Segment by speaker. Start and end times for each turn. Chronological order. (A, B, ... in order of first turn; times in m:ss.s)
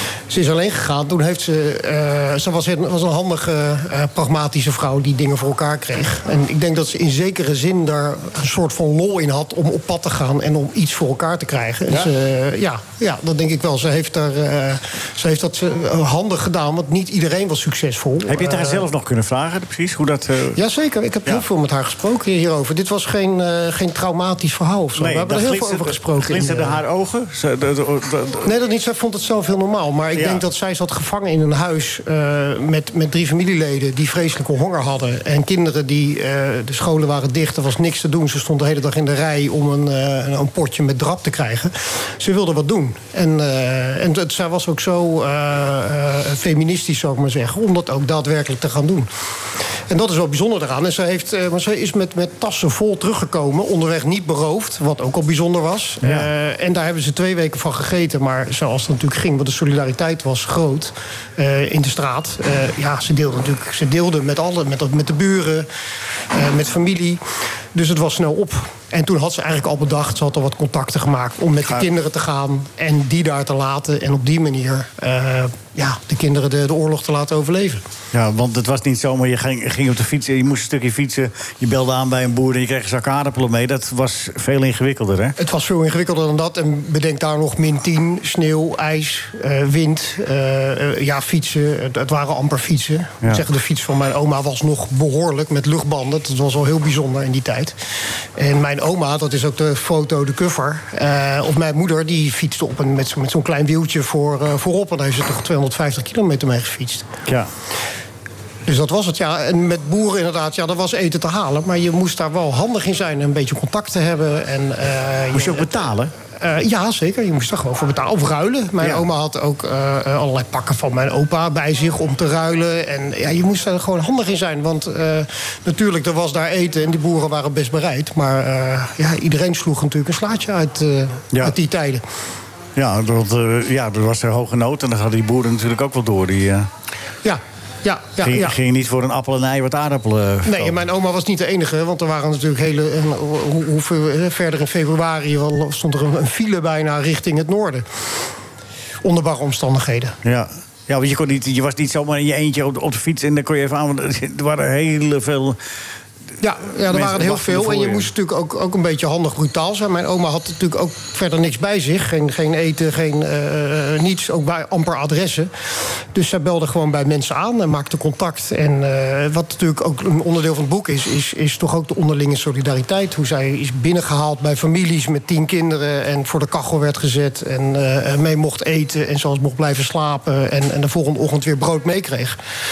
0:00.3-0:18.8 A
0:18.2-0:20.6 B
0:20.6-0:26.8 A
0:24.9-0:28.5 B
0:28.4-0:49.1 A
0:30.1-0:30.4 B
0:49.9-1:05.7 A
0:56.0-0:56.3 B
1:06.3-1:07.2 A
1:07.7-1:17.8 A
1:18.1-1:25.4 B
1:25.4-1:37.8 A
1:38.4-1:47.1 A
1:48.6-1:55.8 A
1:55.3-1:56.1 B
1:56.4-2:12.0 A
1:58.8-1:59.0 B
2:12.8-2:16.7 B
2:17.2-2:18.6 A
2:18.2-2:20.7 B
2:20.4-2:27.8 A
2:29.0-2:30.2 A
2:30.2-2:35.6 B
2:36.4-2:45.5 A
2:36.7-2:38.1 B
2:46.1-3:02.4 A